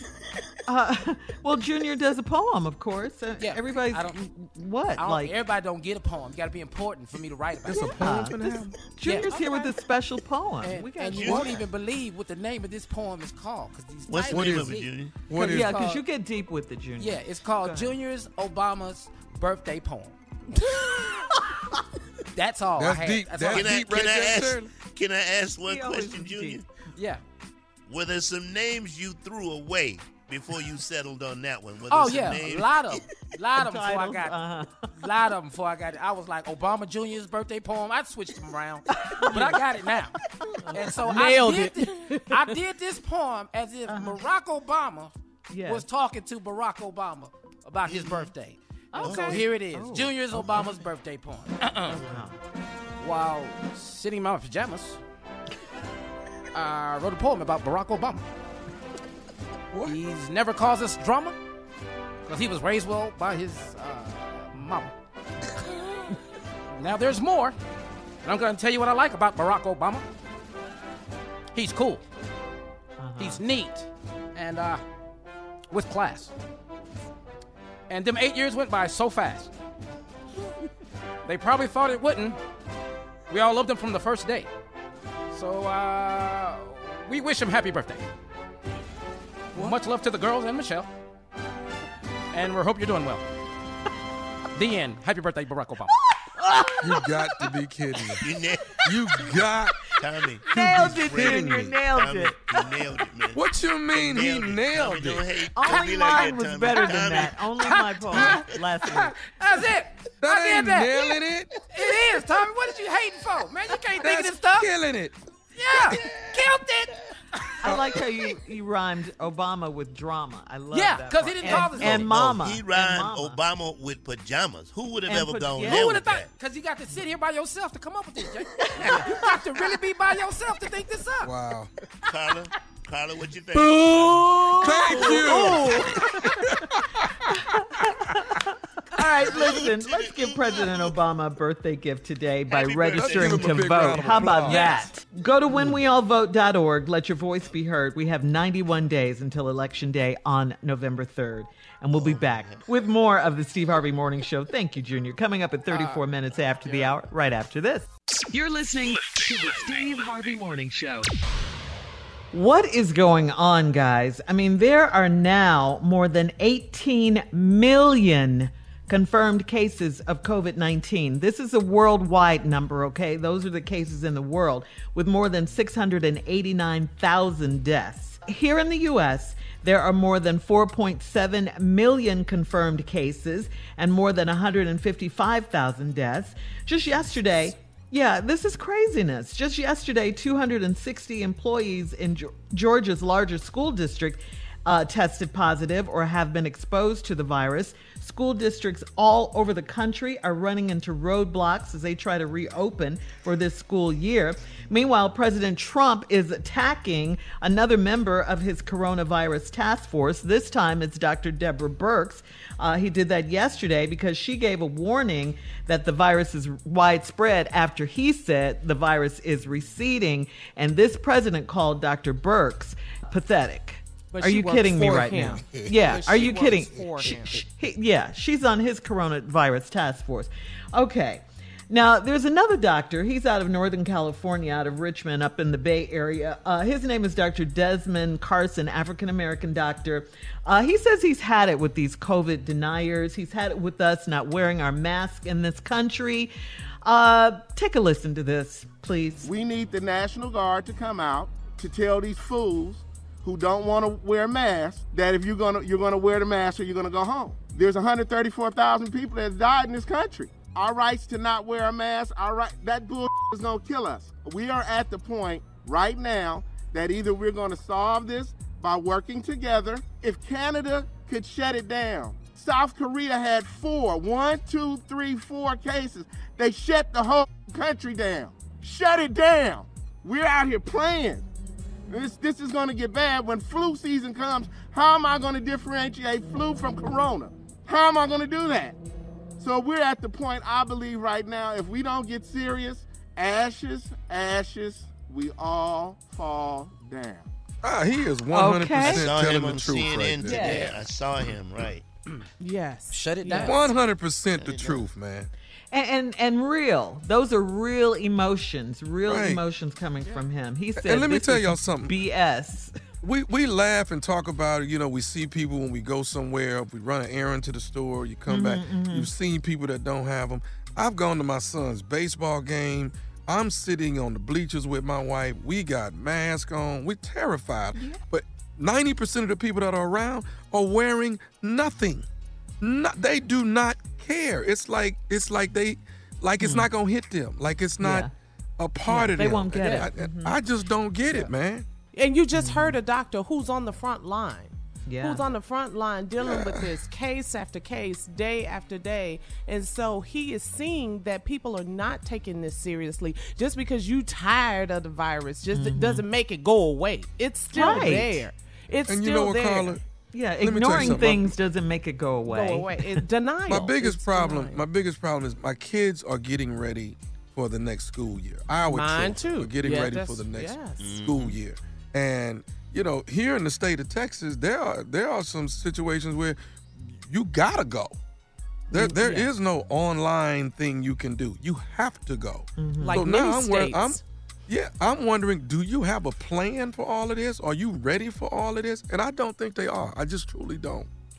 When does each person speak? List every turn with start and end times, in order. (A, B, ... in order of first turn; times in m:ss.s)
0:00.7-0:05.3 A
0:03.4-0:04.2 B
0:05.0-0:08.0 B
0:07.6-0:08.9 C
0:07.8-0:11.5 A
0:09.0-0:09.6 B
0:10.6-0:16.0 B
0:11.2-0:11.6 D
0:14.1-0:15.2 D
0:14.3-0:15.8 C
0:15.3-0:17.9 A
0:17.0-0:20.2 B
0:22.3-0:23.8 B
0:22.8-0:24.7 C
0:23.5-0:26.6 D
0:25.6-0:26.6 A
0:27.0-0:27.2 B
0:27.9-0:33.0 D
0:31.9-0:34.4 B
0:33.6-0:34.9 A
0:35.0-0:40.2 B
0:38.9-0:39.5 A
0:40.6-0:40.8 A
0:40.7-0:45.1 B
0:41.1-0:42.4 E
0:43.9-0:44.2 A
0:45.5-0:45.8 A
0:45.6-0:52.0 B
0:48.9-0:50.6 A
0:49.0-0:49.5 D
0:52.0-0:52.4 A
0:53.0-0:55.0 B
0:56.5-0:58.2 B
0:59.9-1:01.4 B
1:02.3-1:04.9 B
1:05.7-1:06.1 B
1:06.8-1:07.6 B
1:08.2-1:10.1 B
1:11.5-1:12.0 B
1:13.0-1:13.4 A
1:13.2-1:14.8 B
1:15.7-1:16.3 B
1:17.9-1:19.5 B
1:21.3-1:22.4 B
1:23.3-1:24.5 B
1:25.3-1:28.1 B
1:29.6-1:30.9 B
1:32.3-1:33.2 B
1:34.5-1:36.0 B
1:36.4-1:37.5 A
1:36.8-1:38.2 C
1:38.2-1:39.4 D
1:38.8-1:39.8 C
1:40.0-1:47.4 D
1:40.5-1:42.4 A
1:40.5-1:41.8 C
1:43.3-1:45.3 C
1:45.6-1:49.2 A
1:47.7-1:51.1 B
1:48.1-1:48.4 D
1:50.2-1:51.5 C
1:51.7-1:54.7 B
1:54.0-1:55.2 C
1:55.6-1:57.5 B
1:57.6-2:03.4 A
2:00.7-2:02.1 B
2:01.6-2:06.3 D
2:05.1-2:05.9 A
2:05.6-2:11.3 B
2:08.8-2:09.1 D
2:11.2-2:11.7 C
2:12.1-2:15.8 D
2:13.6-2:16.8 C
2:14.5-2:16.3 A
2:17.3-2:37.9 A
2:19.0-2:21.0 D
2:22.5-2:23.8 D
2:23.0-2:24.8 C
2:32.0-2:32.7 D
2:35.7-2:36.0 B
2:36.7-2:36.9 B
2:38.2-2:41.1 F
2:42.3-4:06.3 A
3:44.1-3:45.4 E
3:44.3-3:47.4 B
3:44.8-3:47.2 C
4:06.8-4:09.3 A
4:09.2-4:41.2 G
4:41.9-4:48.8 G
4:49.4-4:57.3 G
4:57.6-5:00.6 C
4:58.3-4:59.1 A
4:58.8-5:01.8 D
5:00.2-5:00.7 A
5:02.4-5:03.7 E
5:02.9-5:03.7 B
5:03.4-5:05.3 C
5:04.4-5:04.9 D
5:05.7-5:12.7 A
5:09.1-5:09.4 C
5:10.8-5:12.0 C
5:13.0-5:32.1 C
5:18.3-5:19.1 A
5:27.8-5:28.0 A
5:32.6-5:41.7 C
5:36.4-5:36.7 A
5:37.8-5:38.1 A
5:38.9-5:40.4 A
5:41.9-5:59.7 E
5:42.4-5:42.8 A
5:44.9-5:45.3 A
5:55.5-5:56.0 A
5:57.5-5:58.2 A
5:58.9-5:59.8 C
6:00.1-6:03.0 A
6:00.4-6:01.3 C
6:02.3-6:04.6 E
6:03.5-6:18.0 C
6:08.7-6:11.3 E
6:10.8-6:11.4 D
6:18.7-6:30.9 C
6:18.7-6:19.3 E
6:22.6-6:23.0 A
6:22.8-6:24.0 E